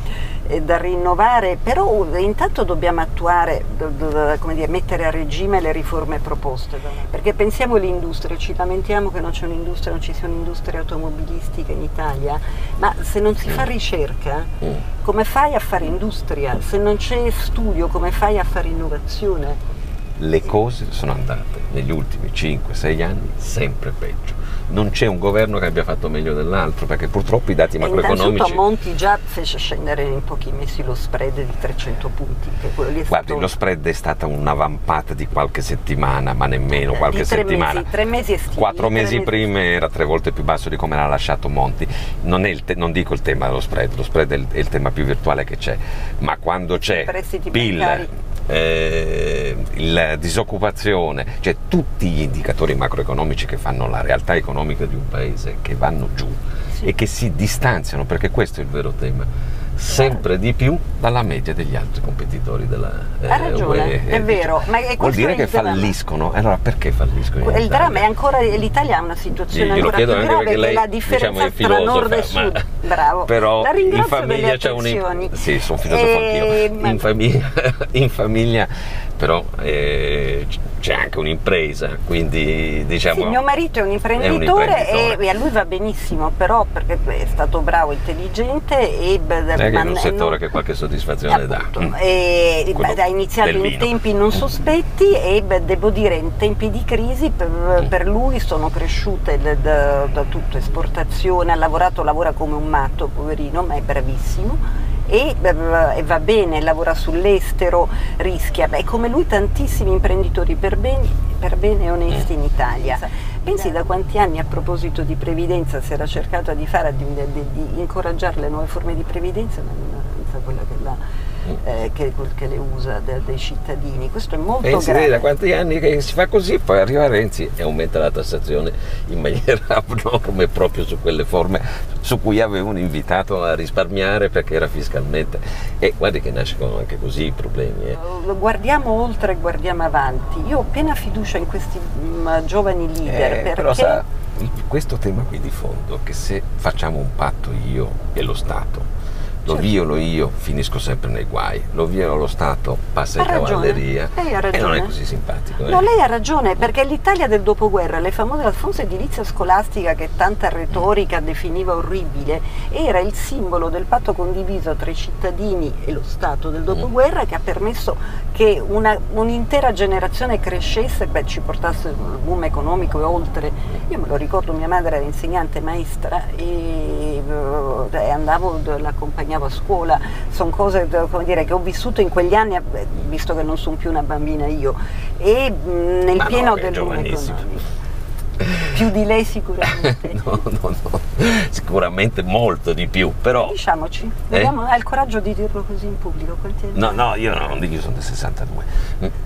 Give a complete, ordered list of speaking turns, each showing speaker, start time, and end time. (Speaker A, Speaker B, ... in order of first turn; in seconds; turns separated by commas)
Speaker A: 0.5-14.5, Speaker A: 15.0-19.6, Speaker B: 20.2-28.6, Speaker A: 27.8-33.5, Speaker B: 33.1-37.9, Speaker A: 36.7-39.5, Speaker B: 38.5-68.0, Speaker A: 46.8-48.1, Speaker A: 59.9-60.2, Speaker A: 63.3-65.9, Speaker A: 67.4-77.0, Speaker B: 69.5-72.6, Speaker B: 73.2-83.4, Speaker A: 83.1-90.4, Speaker B: 84.2-85.2, Speaker B: 89.5-92.0, Speaker A: 91.3-125.3, Speaker B: 92.7-93.9, Speaker B: 124.6-138.0, Speaker A: 137.9-144.0, Speaker B: 143.1-148.9, Speaker B: 149.4-155.9, Speaker A: 149.5-149.7, Speaker A: 153.2-154.9, Speaker A: 155.6-187.7, Speaker B: 186.1-187.6, Speaker B: 188.4-188.7, Speaker A: 188.6-190.4, Speaker B: 189.6-193.6, Speaker A: 193.4-197.1, Speaker B: 196.7-199.1